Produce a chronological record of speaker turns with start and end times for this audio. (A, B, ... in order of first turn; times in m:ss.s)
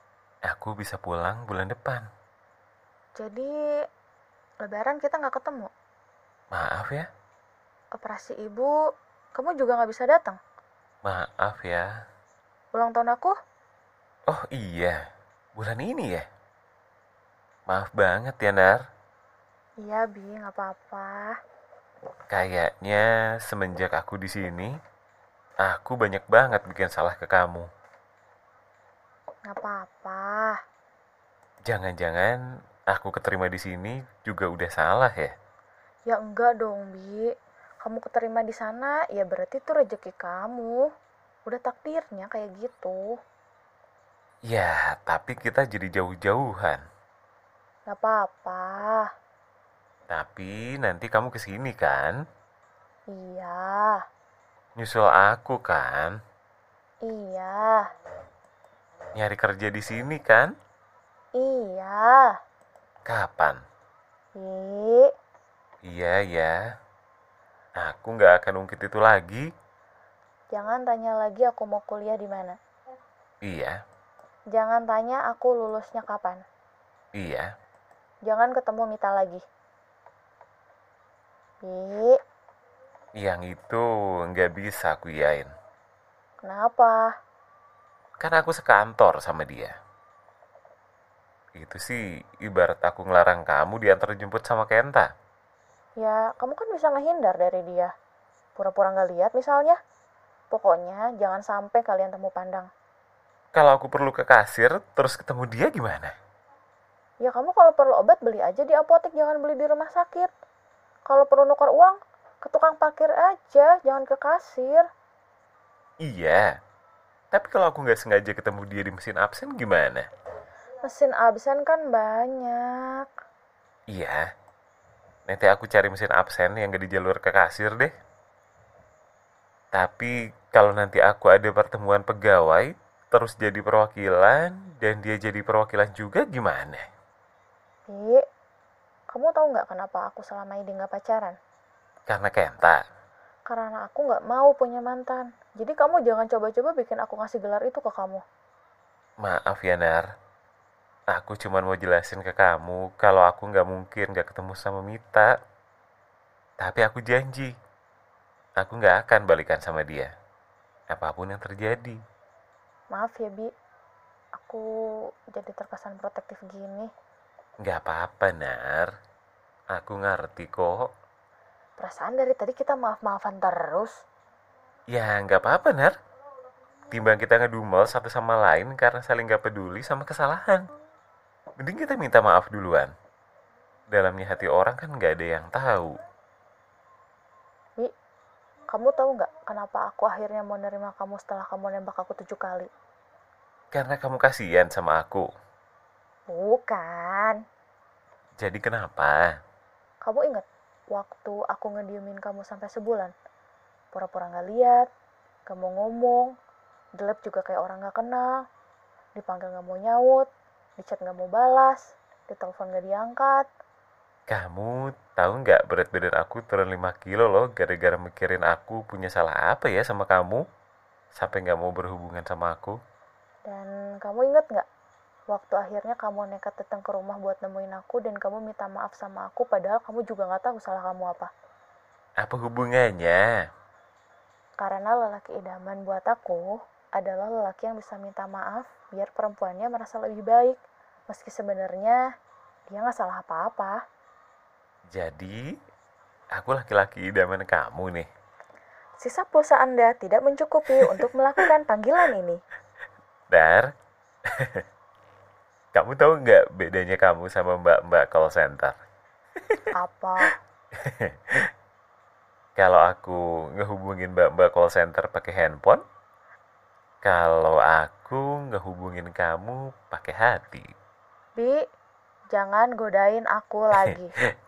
0:00.5-0:02.0 A
0:03.2-0:03.5 B
0:04.6-0:05.7 B
0:06.5-0:07.1 A
0:08.0-0:08.7 B
0:09.3-0:10.4 B
0:11.0-0:11.9 A
0:12.7-0:13.3 B
0:14.3-0:15.0 A
0:15.6-0:16.2 A
0:17.7-0:18.8 A
0:19.8-0:21.3 B
0:22.3-0:24.7 A
0:25.6-0:27.7 A
0:29.5-0:30.6 B
0:31.7-0:32.4 A
0:32.9-0:35.3 A
0:36.1-0:37.3 B
0:37.8-0:40.8 B
0:41.4-0:43.0 B
0:44.5-0:46.8 A
0:47.9-0:49.1 B
0:50.1-0:52.1 A
0:53.1-0:54.0 B
0:54.8-0:56.1 A
0:57.0-0:57.8 B
0:59.2-1:00.5 A
1:01.4-1:02.3 B
1:03.1-1:03.6 A
1:04.4-1:05.1 B
1:05.8-1:06.6 A
1:07.8-1:09.5 A
1:10.5-1:12.6 B
1:13.4-1:13.8 A
1:14.5-1:16.4 B
1:17.1-1:17.5 A
1:18.2-1:19.4 B
1:21.6-1:22.2 B
1:23.2-1:25.5 A
1:26.4-1:27.1 B
1:28.2-1:29.7 A
1:31.6-1:35.1 A
1:36.0-1:37.9 B
1:38.6-1:39.8 B
1:40.5-1:42.7 B
1:43.5-1:46.1 A
1:47.2-1:50.3 B
1:51.1-1:54.8 B
1:56.0-1:56.5 A
1:57.3-2:00.0 A
2:00.8-2:03.1 B
2:03.9-2:04.2 A
2:05.3-2:07.9 A
2:09.7-2:16.8 A
2:17.9-2:18.2 B
2:19.1-2:21.4 B
2:22.1-2:22.8 A
2:23.5-2:28.2 B
2:29.2-2:30.0 A
2:31.1-2:35.3 A
2:36.6-2:37.5 A
2:38.6-2:40.1 A
2:40.9-2:42.0 A
2:42.9-2:43.5 B
2:44.4-2:44.6 B
2:45.3-2:46.9 B
2:47.6-2:48.9 A
2:49.7-2:50.9 A
2:51.8-2:54.0 B
2:54.9-2:56.0 A
2:56.9-3:00.6 A
3:01.6-3:02.9 A
3:03.9-3:06.0 A
3:08.7-3:12.7 B
3:13.7-3:15.3 A
3:16.3-3:17.4 B
3:18.4-3:19.3 A
3:20.0-3:23.1 B
3:23.9-3:24.9 B
3:25.5-3:26.3 B
3:27.0-3:28.4 B
3:29.2-3:33.5 B
3:34.3-3:40.4 A
3:41.1-3:42.8 A
3:43.5-3:44.6 B
3:45.3-3:51.3 B
3:52.2-3:53.2 A
3:54.6-4:00.6 B
4:01.1-4:02.0 B
4:02.7-4:03.8 B
4:04.9-4:05.4 A
4:06.3-4:08.1 A
4:09.0-4:12.4 B
4:13.3-4:13.7 A
4:14.3-4:14.6 A
4:15.7-4:18.7 A
4:19.4-4:19.7 A
4:19.7-4:20.3 B
4:20.7-4:21.5 A
4:22.6-4:25.8 A
4:27.0-4:30.7 A
4:32.3-4:34.1 B